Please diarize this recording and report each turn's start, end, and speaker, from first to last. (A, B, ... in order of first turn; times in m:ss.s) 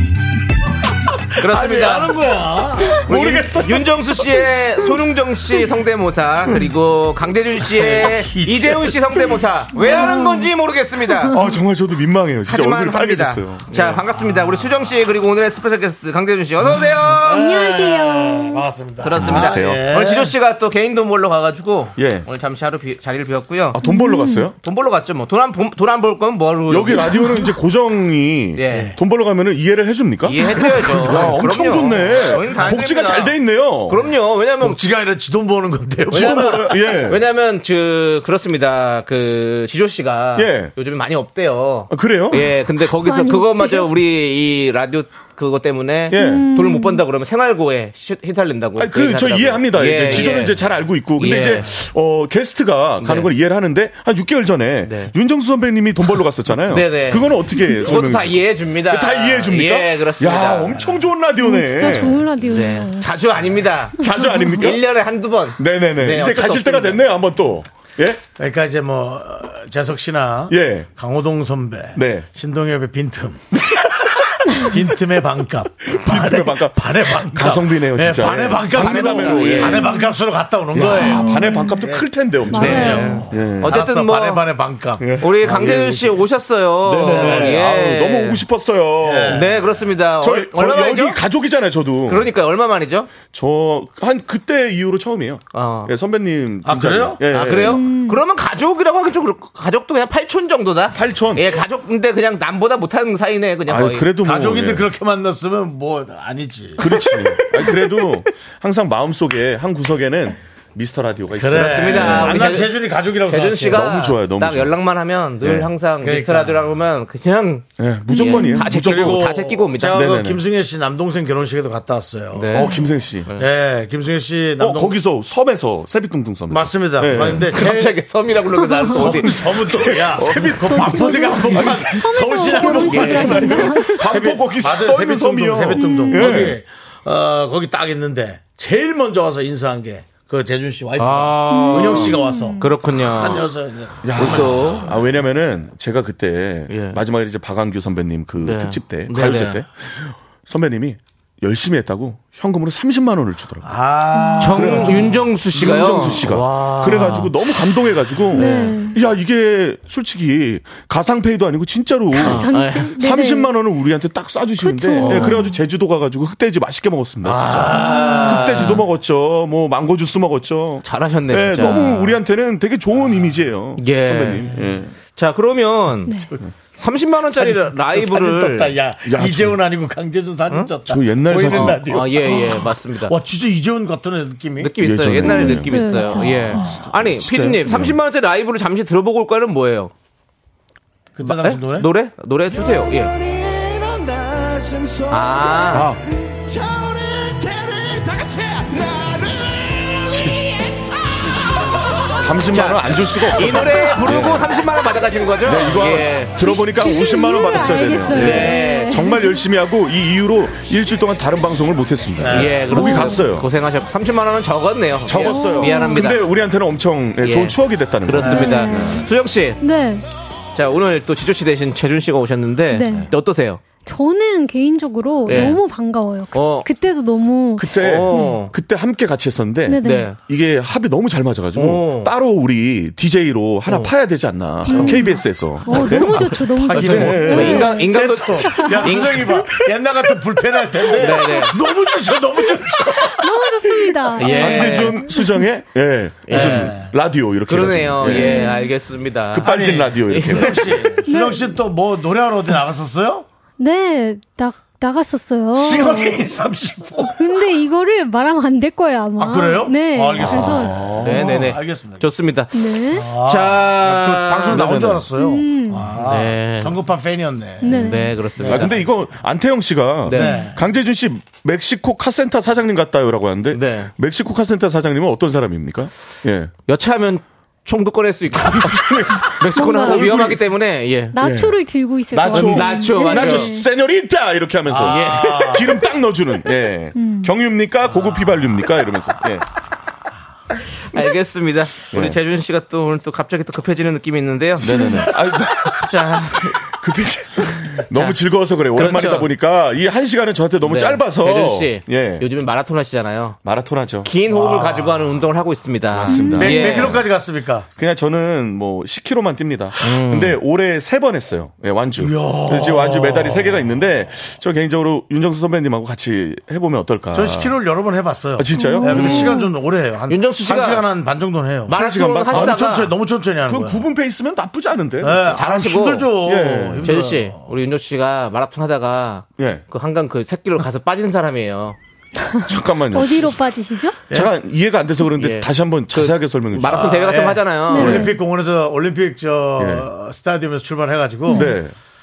0:01.4-0:02.2 A
0:01.4-0:03.9 B
0:02.9-0:11.4 A
0:03.1-0:03.7 C
0:07.7-0:09.0 B
0:09.8-0:10.5 D
0:11.3-0:14.0 C
0:12.5-0:17.5 A
0:16.8-0:20.3 B
0:17.3-0:18.6 D
0:19.0-0:23.8 A
0:19.2-0:19.8 C
0:22.0-0:22.3 C
0:23.7-0:24.5 C
0:23.8-0:24.5 D
0:24.6-0:27.2 A
0:26.7-0:34.0 C
0:28.6-0:28.9 A
0:28.7-0:29.0 B
0:30.2-0:34.8 A
0:34.6-0:36.8 B
0:36.1-0:37.2 C
0:36.1-0:50.6 A
0:40.4-0:40.7 C
0:41.9-0:42.5 C
0:42.9-0:43.9 D
0:46.1-0:46.5 C
0:46.2-0:47.0 D
0:48.8-1:02.3 C
0:51.2-0:51.7 A
0:53.0-0:53.3 A
0:54.8-0:55.1 A
0:56.7-1:00.9 A
1:01.4-1:03.1 D
1:02.4-1:07.1 A
1:04.0-1:04.8 C
1:04.0-1:04.6 D
1:05.6-1:08.2 C
1:08.4-1:26.1 B
1:10.5-1:10.9 C
1:12.0-1:12.3 C
1:15.9-1:20.0 C
1:18.7-1:20.0 A
1:19.8-1:20.1 D
1:20.7-1:23.8 C
1:21.0-1:21.8 D
1:22.5-1:24.4 A
1:22.6-1:23.3 D
1:25.0-1:26.1 C
1:25.2-1:28.4 A
1:26.8-1:29.7 C
1:27.0-1:27.6 B
1:29.0-1:29.6 B
1:29.3-1:31.2 A
1:30.2-1:32.3 C
1:32.1-1:33.1 A
1:33.2-1:37.8 C
1:35.5-1:35.9 A
1:36.6-1:37.2 B
1:37.3-1:44.1 A
1:37.6-1:38.2 D
1:40.9-1:41.6 C
1:43.7-1:44.9 C
1:44.2-1:47.7 B
1:46.8-1:52.5 C
1:51.3-1:53.9 B
1:51.5-2:00.1 A
1:53.7-1:54.8 C
1:55.4-1:55.7 C
1:56.0-1:56.6 B
1:57.8-1:59.3 C
1:58.2-1:58.7 D
1:58.7-2:02.7 B
1:59.9-2:00.4 C
2:02.3-2:03.5 A
2:02.5-2:03.3 C
2:03.4-2:05.0 B
2:04.6-2:07.6 C
2:06.5-2:08.0 B
2:07.2-2:10.5 A
2:08.9-2:25.0 B
2:09.5-2:16.6 C
2:10.7-2:14.1 D
2:12.7-2:13.6 A
2:15.8-2:16.3 D
2:21.0-2:23.4 A
2:21.5-2:22.8 D
2:24.0-2:33.7 C
2:24.2-2:24.9 A
2:26.7-2:27.0 A
2:28.4-2:29.6 A
2:33.6-2:36.0 B
2:34.2-2:34.4 D
2:34.4-2:37.3 A
2:34.5-2:54.9 C
2:38.3-2:39.0 D
2:38.4-2:38.8 A
2:42.1-2:43.5 D
2:42.2-2:43.0 A
2:44.6-2:45.6 D
2:45.0-2:45.5 A
2:47.2-2:48.8 A
2:47.6-2:48.5 B
2:47.8-2:48.6 D
2:50.8-2:52.2 A
2:53.8-2:54.5 A
2:55.2-2:56.2 A
2:56.8-2:58.8 A
2:57.3-3:04.8 B
2:59.0-2:59.6 C
3:00.9-3:02.0 C
3:01.4-3:03.2 A
3:04.6-3:09.9 A
3:04.8-3:05.9 C
3:05.2-3:06.7 D
3:06.9-3:08.0 C
3:11.2-3:11.9 B
3:11.2-3:13.2 A
3:13.1-3:15.5 B
3:15.1-3:15.9 A
3:15.7-3:16.0 C
3:16.3-3:21.9 B
3:22.2-3:24.5 C
3:22.5-3:26.4 A
3:25.4-3:33.5 C
3:26.4-3:29.4 D
3:28.1-3:29.1 A
3:32.2-3:32.7 B
3:32.3-3:36.2 A
3:32.7-3:33.2 D
3:35.1-3:39.0 C
3:35.2-3:36.1 D
3:37.2-3:39.6 A
3:38.3-3:39.1 D
3:39.6-3:40.0 D
3:40.6-3:43.6 A
3:42.7-3:43.1 D
3:43.8-3:48.5 D
3:45.3-3:45.6 A
3:46.3-3:46.7 A
3:47.6-3:57.8 C
3:47.8-3:48.5 A
3:49.7-3:50.2 D
3:49.8-3:50.2 A
3:51.6-3:52.1 A
3:53.7-3:53.9 A
3:54.6-3:57.9 D
3:54.7-3:55.0 A
3:55.7-3:56.2 A
3:55.7-4:03.5 B
3:56.7-3:59.6 A
4:00.9-4:01.6 A
4:03.0-4:05.4 D
4:04.2-4:05.0 A
4:04.2-4:08.5 C
4:06.3-4:06.8 A
4:06.3-4:06.9 B
4:07.5-4:11.0 A
4:08.1-4:08.8 D
4:09.3-4:11.0 C
4:09.4-4:13.3 B
4:11.1-4:11.4 D
4:13.6-4:16.2 D
4:15.6-4:17.3 B
4:17.1-4:20.7 D
4:19.2-4:22.0 B
4:20.3-4:21.0 C
4:20.3-4:24.8 A
4:22.5-4:23.0 D
4:22.9-4:28.8 B
4:24.5-4:25.1 C
4:25.1-4:25.9 D
4:26.0-4:26.8 A
4:27.6-4:28.3 D
4:27.7-4:28.9 A
4:28.4-4:36.5 C
4:30.1-4:30.5 A
4:30.2-4:30.5 D
4:30.2-4:30.6 B
4:33.5-4:33.9 A
4:36.7-4:41.2 A
4:38.6-4:40.4 C
4:39.5-4:40.1 D
4:41.1-4:43.7 D
4:41.2-4:41.6 C
4:42.1-4:49.4 C
4:42.2-4:43.5 A
4:44.7-4:45.8 B
4:44.8-4:45.6 A
4:47.0-4:47.3 D
4:50.9-4:55.1 A
4:51.9-4:52.2 C
4:54.6-5:02.3 C
4:55.7-4:56.6 A
4:57.7-4:58.2 A
4:58.7-4:59.3 A
5:00.6-5:03.4 A
5:03.4-5:04.1 C
5:04.0-5:07.0 A
5:04.3-5:05.2 B
5:05.9-5:07.0 C
5:06.1-5:06.7 D
5:06.2-5:07.7 B
5:07.8-5:17.6 C
5:09.8-5:10.4 A
5:12.0-5:13.8 B
5:17.1-5:23.9 B
5:18.4-5:19.3 C
5:18.6-5:19.5 D
5:18.8-5:19.4 A
5:20.1-5:20.8 A
5:21.7-5:22.9 C
5:21.7-5:22.9 A
5:23.4-5:25.5 C
5:25.0-5:27.4 B
5:25.3-5:26.2 A
5:26.1-5:27.0 C
5:26.8-5:31.8 A
5:29.4-5:29.6 C
5:32.5-5:33.5 C
5:32.9-5:34.0 D
5:34.1-5:38.1 C
5:35.2-5:38.1 A
5:36.7-5:41.6 B
5:37.7-5:38.2 D
5:39.6-5:39.9 C
5:41.3-5:41.6 D
5:41.3-5:41.7 C